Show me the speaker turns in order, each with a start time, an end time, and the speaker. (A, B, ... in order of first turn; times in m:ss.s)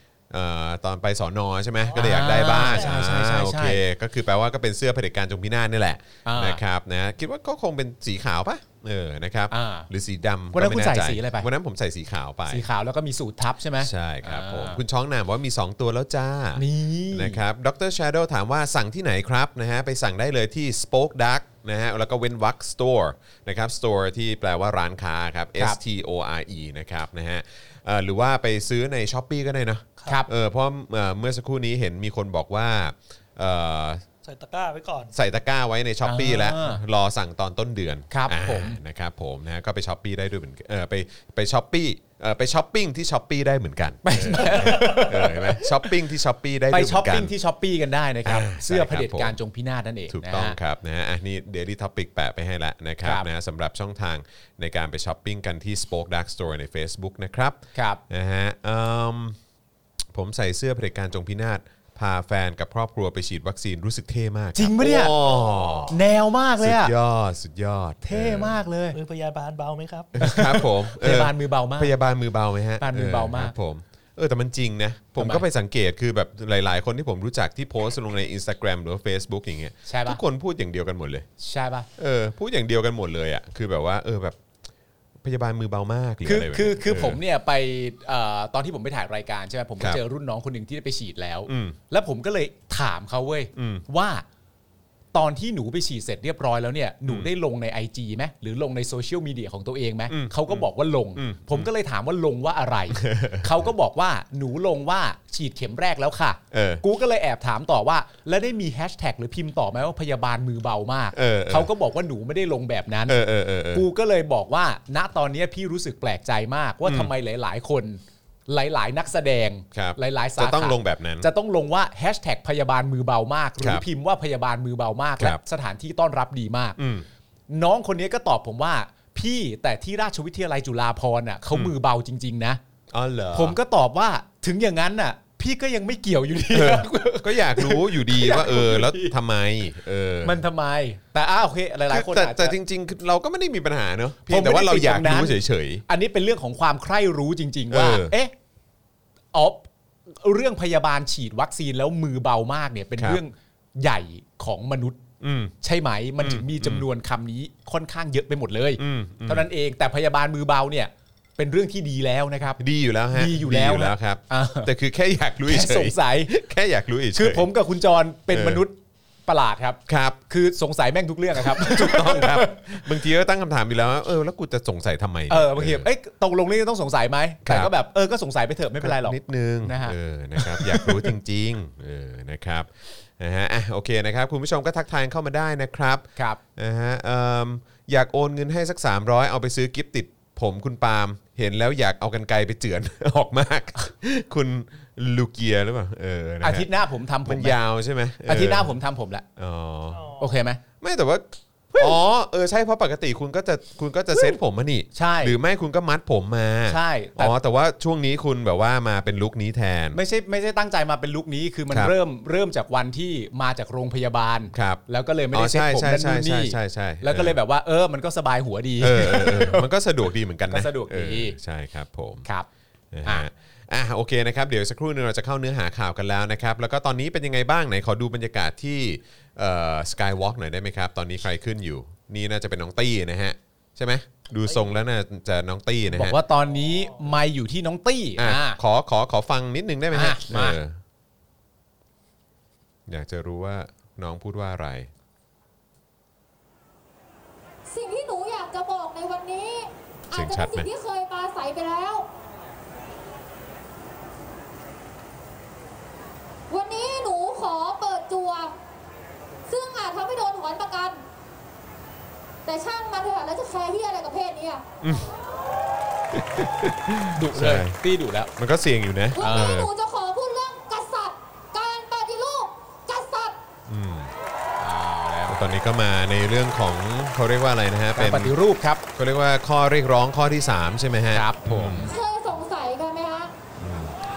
0:00.3-0:12.6 A
0:01.9-0:03.0 B
0:01.9-0:03.8 C
0:06.2-0:06.6 C
0:09.5-0:09.9 C
0:10.5-0:11.5 C
0:12.5-0:14.8 C
0:13.8-0:34.0 A
0:16.6-0:17.4 C
0:34.2-0:35.1 B
0:35.1-0:47.3 A
0:36.0-0:36.8 C
0:38.1-0:38.8 C
0:44.0-0:45.9 C
0:44.6-0:45.0 B
0:46.7-0:50.6 C
0:48.2-0:49.4 A
0:50.1-0:59.4 A
0:57.7-0:58.0 C
1:00.1-1:06.0 A
1:04.6-1:05.1 C
1:05.9-1:06.9 C
1:06.6-1:08.6 A
1:08.0-1:09.0 C
1:08.9-1:10.1 B
1:10.1-1:21.3 A
1:10.2-1:11.9 C
1:12.8-1:13.5 C
1:15.2-1:15.4 C
1:19.8-1:20.2 C
1:21.4-1:21.9 C
1:22.0-1:24.4 A
1:25.2-1:27.2 A
1:26.2-1:34.2 C
1:31.4-1:31.8 A
1:33.5-1:33.8 A
1:35.1-1:53.2 C
1:37.0-1:37.3 A
1:40.1-1:41.7 A
1:42.9-1:43.7 A
1:46.5-1:46.8 A
1:51.1-1:51.7 A
1:53.1-1:53.9 A
1:53.7-2:06.8 C
1:56.8-1:57.1 A
1:59.7-2:01.3 A
2:03.6-2:03.8 A
2:06.8-2:07.0 A
2:07.5-2:12.6 C
2:12.9-2:13.6 A
2:13.3-2:19.1 C
2:16.5-2:20.4 A
2:20.2-2:22.6 C
2:21.9-2:25.8 A
2:24.3-2:25.4 C
2:25.9-2:28.3 C
2:27.7-2:28.1 A
2:29.3-2:35.0 C
2:35.2-2:35.5 A
2:35.6-2:42.6 C
2:36.2-2:36.8 A
2:38.8-2:39.5 A
2:42.6-2:47.5 A
2:43.1-2:44.7 C
2:45.5-2:46.3 C
2:47.1-2:52.9 C
2:48.3-2:48.6 A
2:49.9-2:50.2 A
2:51.4-2:55.9 A
2:55.3-3:01.1 C
2:57.4-2:57.7 A
2:58.8-3:16.7 A
3:16.4-3:17.6 C
3:17.2-3:18.8 A
3:18.3-3:19.2 C
3:19.4-3:20.2 A
3:19.9-3:20.2 B
3:20.2-3:20.6 C
3:20.8-3:30.0 A
3:21.7-3:22.0 C
3:24.9-3:25.4 C
3:26.7-3:27.3 C
3:29.9-3:39.7 C
3:34.5-3:37.4 A
3:38.8-3:42.3 A
3:40.5-3:41.4 C
3:42.9-3:56.2 A
3:55.9-3:58.6 C
3:58.2-4:00.8 A
3:59.9-4:00.6 C
4:02.9-4:04.9 A
4:07.7-4:12.1 D
4:10.1-4:10.7 A
4:16.5-4:18.5 D
4:19.5-4:21.0 D
4:22.4-4:24.6 D
4:24.8-4:25.1 A
4:26.1-4:27.8 A
4:27.1-4:28.3 C
4:28.4-4:29.7 A
4:29.2-4:33.4 D
4:29.2-4:29.6 C
4:33.7-4:34.1 A
4:34.6-4:35.5 C
4:35.3-4:38.3 A
4:38.0-4:38.8 C
4:38.9-4:41.9 A
4:41.1-4:41.9 C
4:41.9-4:43.3 D
4:43.6-4:44.0 A